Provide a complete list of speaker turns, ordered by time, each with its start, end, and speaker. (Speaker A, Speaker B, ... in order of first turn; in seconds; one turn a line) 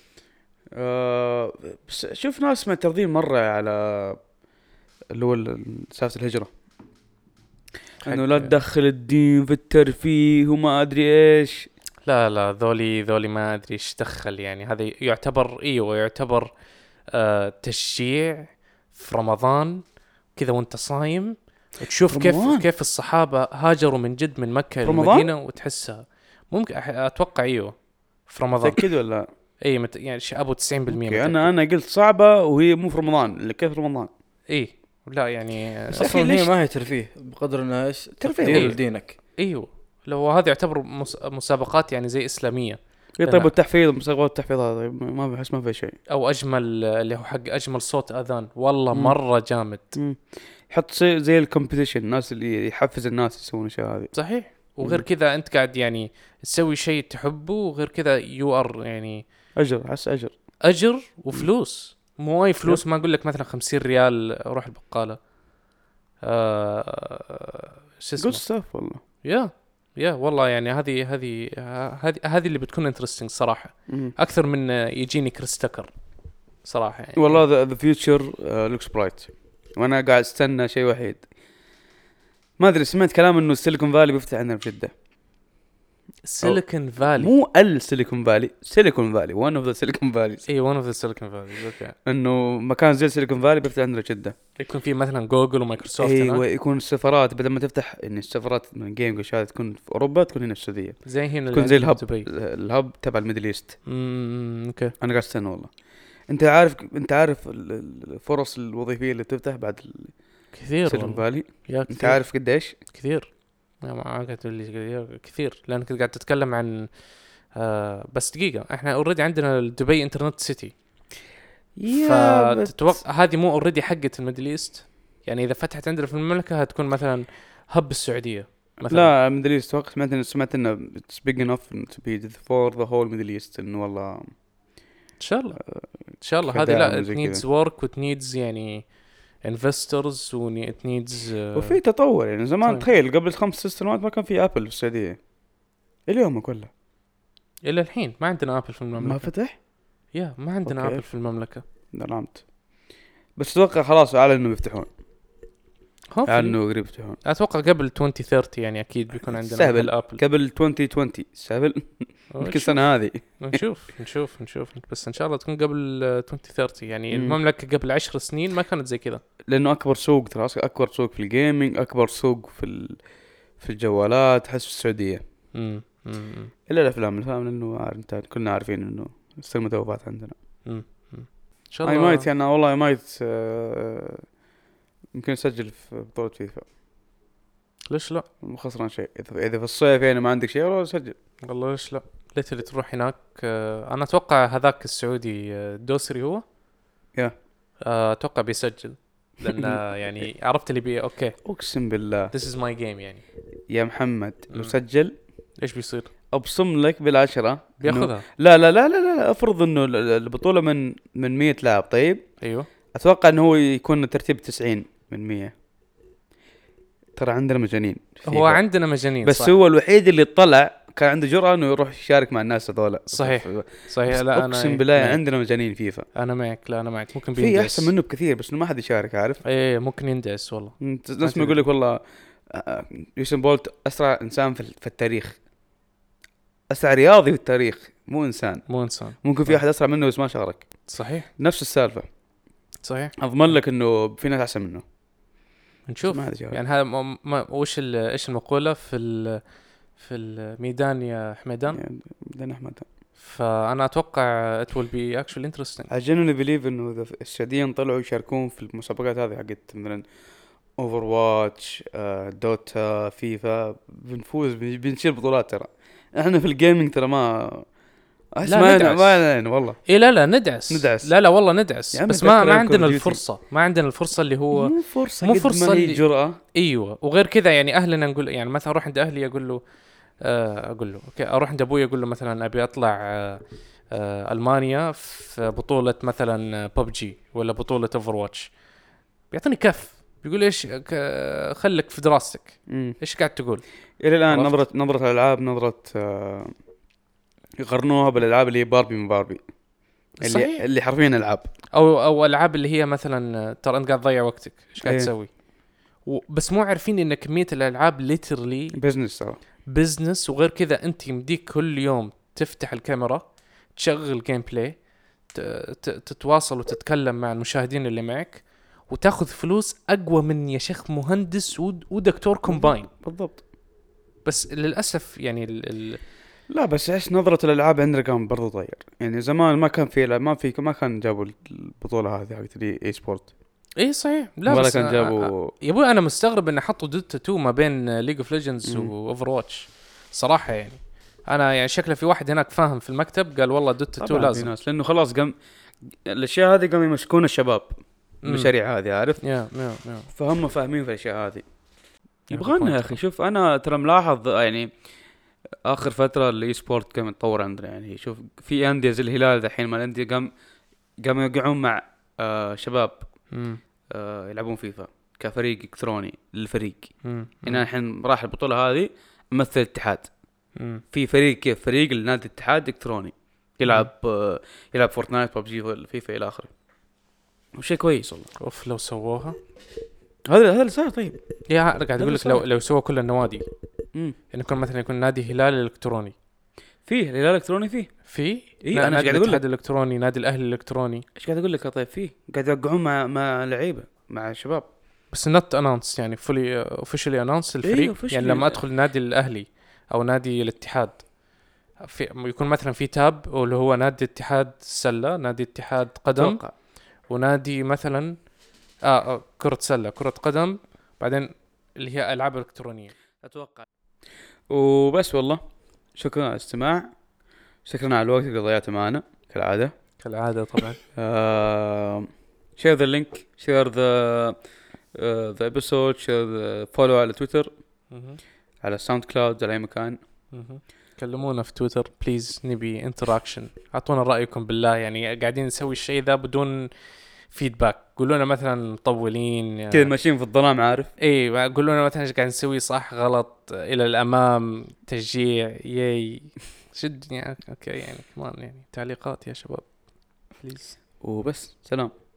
Speaker A: 0.8-4.2
Speaker A: 5.1-6.5
Speaker B: 8.0-8.5
Speaker A: 8.0-11.7
Speaker B: 12.0-28.9
Speaker A: 22.1-22.6
Speaker A: 24.8-25.3
Speaker A: 28.6-29.3
Speaker B: 29.6-31.5
Speaker A: 30.9-34.1
Speaker B: 34.5-36.0
Speaker A: 35.9-36.5
Speaker C: 36.0-39.2
Speaker A: 38.2-38.8
Speaker B: 38.4-43.5
Speaker A: 43.1-46.0
Speaker B: 46.1-49.9
Speaker A: 48.9-49.2
Speaker A: 49.9-55.0
Speaker B: 54.1-59.2
Speaker A: 59.5-60.3
Speaker B: 60.6-65.3
Speaker B: 66.2-68.5
Speaker A: 68.2-69.0
Speaker B: 69.2-77.4
Speaker A: 73.9-74.1
Speaker A: 77.2-81.3
Speaker A: 82.6-84.9
Speaker B: 86.2-87.3
Speaker A: 86.4-90.5
Speaker B: 90.5-91.9
Speaker A: 92.0-94.3
Speaker B: 94.5-96.4
Speaker A: 96.0-103.8
Speaker B: 101.0-102.3
Speaker B: 103.8-104.9
Speaker A: 105.0-112.8
Speaker B: 110.5-120.8
Speaker A: 121.8-123.0
Speaker B: 121.9-129.1
Speaker A: 128.9-134.4
Speaker B: 135.2-141.8
Speaker A: 135.6-137.4
Speaker A: 141.5-145.4
Speaker A: 146.0-146.7
Speaker B: 147.6-149.3
Speaker A: 149.0-149.6
Speaker B: 150.1-151.6
Speaker A: 150.6-152.8
Speaker A: 153.3-154.9
Speaker B: 156.1-160.2
Speaker A: 156.3-157.2
Speaker A: 159.2-163.6
Speaker B: 162.3-169.2
Speaker A: 167.1-167.4
Speaker A: 169.5-175.2
Speaker B: 175.5-176.5
Speaker A: 176.7-180.3
Speaker B: 180.6-182.3
Speaker A: 181.8-184.2
Speaker A: 185.1-186.7
Speaker B: 187.9-188.2
Speaker A: 188.4-191.2
Speaker B: 191.4-196.4
Speaker B: 197.8-201.4
Speaker A: 199.5-200.2
Speaker A: 201.4-202.3
Speaker B: 202.3-203.2
Speaker A: 203.7-205.6
Speaker B: 204.5-206.1
Speaker A: 206.3-215.5
Speaker B: 207.8-208.2
Speaker B: 212.4-212.7
Speaker A: 217.2-226.1
Speaker B: 218.2-219.5
Speaker B: 223.1-225.2
Speaker B: 226.1-227.9
Speaker A: 227.3-229.4
Speaker B: 229.4-231.6
Speaker A: 230.8-235.4
Speaker A: 236.7-242.1
Speaker B: 238.7-239.6
Speaker B: 240.9-241.3
Speaker B: 242.8-243.6
Speaker A: 243.2-244.8
Speaker B: 245.8-251.8
Speaker A: 246.0-246.6
Speaker A: 251.7-252.9
Speaker B: 253.2-255.9
Speaker A: 255.9-260.1
Speaker A: 260.7-267.7
Speaker A: 268.3-269.9
Speaker B: 268.4-269.3
Speaker B: 269.8-276.0
Speaker A: 270.7-273.2
Speaker A: 274.5-276.4
Speaker B: 276.5-279.6
Speaker B: 280.2-288.6
Speaker B: 289.3-294.6
Speaker A: 292.7-293.0
Speaker A: 294.0-296.6
Speaker A: 297.6-299.5
Speaker A: 300.1-301.5
Speaker B: 300.2-300.6
Speaker B: 301.7-308.8
Speaker A: 304.8-305.1
Speaker A: 308.7-309.4
Speaker B: 309.6-322.9
Speaker A: 322.4-323.4
Speaker B: 324.2-326.0
Speaker A: 326.5-333.3
Speaker B: 333.8-344.5
Speaker A: 334.5-335.5
Speaker A: 338.7-338.9
Speaker A: 344.0-345.3
Speaker A: 345.9-351.5
Speaker B: 348.2-348.5
Speaker B: 349.2-350.1
Speaker A: 352.1-355.1
Speaker B: 352.3-353.0
Speaker A: 355.6-360.3
Speaker A: 361.0-363.3
Speaker B: 363.3-363.6
Speaker A: 363.9-370.1
Speaker B: 367.0-367.6
Speaker B: 370.5-370.8
Speaker A: 370.9-376.5
Speaker A: 377.5-378.3
Speaker B: 378.4-379.4
Speaker A: 380.3-381.2
Speaker B: 381.5-383.4
Speaker A: 382.0-382.4
Speaker B: 384.3-386.1
Speaker A: 386.8-389.4
Speaker B: 388.1-391.0
Speaker A: 391.1-394.7
Speaker B: 395.1-412.9
Speaker A: 397.6-398.6
Speaker A: 406.1-406.5
Speaker A: 413.2-413.6
Speaker A: 414.5-416.9
Speaker A: 417.6-419.7
Speaker B: 420.0-420.8
Speaker A: 420.9-424.4
Speaker A: 424.9-427.5
Speaker B: 427.9-428.2
Speaker A: 428.6-430.0
Speaker B: 430.3-436.7
Speaker B: 437.2-439.9
Speaker A: 439.7-440.9
Speaker B: 441.0-450.8
Speaker A: 451.0-451.9